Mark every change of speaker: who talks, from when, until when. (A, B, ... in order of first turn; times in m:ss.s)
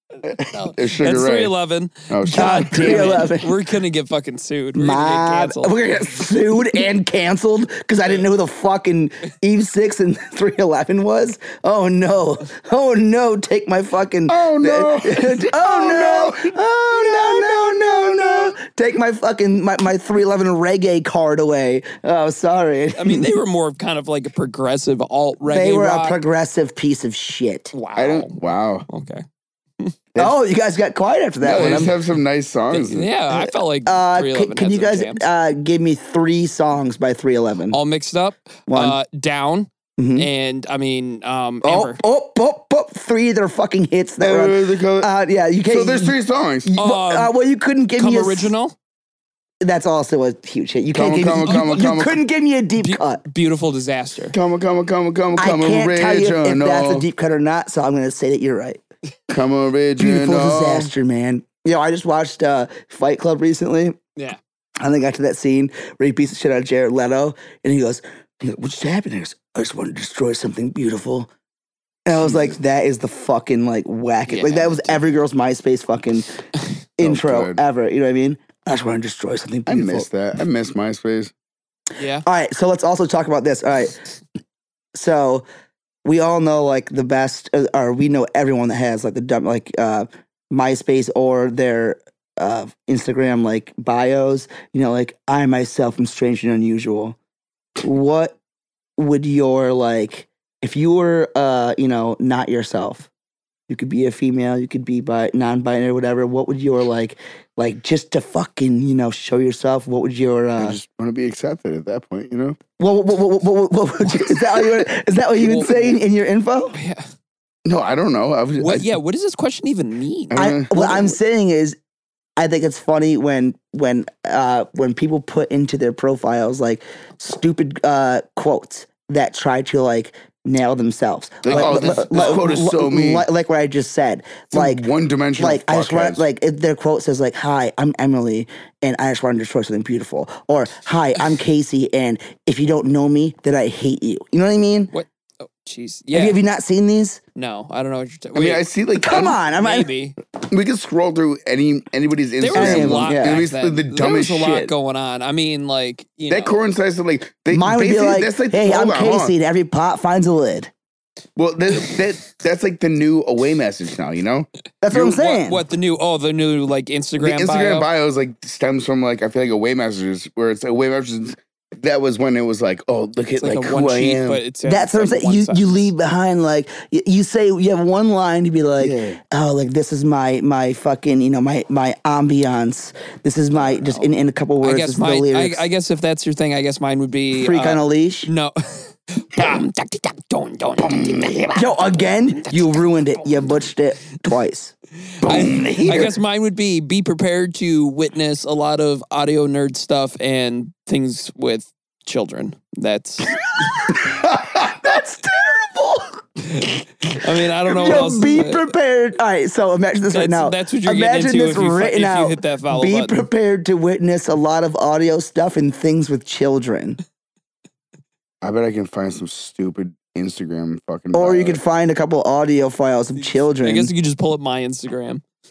0:00.2-0:01.5 A
0:00.3-0:05.8 B
0:02.1-0:03.2 A
0:02.3-0:03.6 C
0:04.8-0:23.3 C
0:14.3-0:18.6 A
0:23.0-0:26.2 B
0:25.4-0:27.7 C
0:27.7-0:29.2 B
0:27.9-0:28.8 A
0:30.2-0:31.9 C
0:31.4-0:33.1 A
0:31.5-0:31.9 B
0:32.7-0:35.2 B
0:33.3-0:37.8 C
0:37.7-0:42.0 B
0:38.7-0:39.0 C
0:40.0-0:40.3 C
0:41.6-0:48.5 C
0:44.2-0:45.1 A
0:45.6-0:46.8 A
0:46.7-0:47.3 B
0:48.0-0:48.7 B
0:49.6-0:53.2 C
0:50.9-0:52.2 A
0:51.3-0:51.8 B
0:52.8-0:54.4 B
0:54.3-0:57.0 A
0:55.4-0:58.8 C
0:59.3-1:00.9 A
1:00.0-1:04.0 C
1:04.8-1:11.3 C
1:12.0-1:16.3 C
1:14.3-1:15.0 B
1:17.0-1:20.1 C
1:17.0-1:17.6 A
1:19.7-1:21.3 A
1:22.0-1:22.2 B
1:22.2-1:24.0 C
1:24.9-1:25.4 C
1:26.0-1:37.2 C
1:37.8-1:38.4 C
1:39.0-1:43.1 C
1:43.7-1:50.8 C
1:50.6-1:52.6 A
1:52.8-1:56.8 C
1:55.4-1:56.0 B
1:56.7-1:57.0 B
1:57.6-1:58.9 A
1:58.6-2:00.9 B
2:00.3-2:01.1 A
2:00.3-2:01.8 C
2:02.4-2:14.8 C
2:11.4-2:13.3 A
2:11.5-2:12.4 B
2:14.5-2:16.2 A
2:15.4-2:24.9 C
2:24.9-2:26.4 B
2:26.1-2:27.2 C
2:27.4-2:30.1 B
2:28.3-2:29.3 A
2:28.9-2:29.9 C
2:30.4-2:34.7 A
2:32.4-2:36.6 B
2:32.5-2:33.4 C
2:36.3-2:39.3 A
2:37.5-2:40.7 C
2:41.4-2:44.5 A
2:44.8-2:45.6 C
2:44.9-2:47.9 B
2:47.2-2:54.4 A
2:53.4-2:55.9 B
2:54.6-3:05.6 C
2:58.8-2:59.2 A
3:03.5-3:13.6 B
3:07.3-3:08.3 C
3:10.8-3:11.7 A
3:11.6-3:14.7 C
3:15.2-3:23.8 B
3:15.2-3:16.1 A
3:23.4-3:26.2 C
3:24.0-3:24.6 A
3:26.4-3:28.7 B
3:27.1-3:37.0 C
3:30.1-3:33.2 B
3:38.4-3:41.6 A
3:41.1-3:43.9 C
3:43.2-3:45.2 B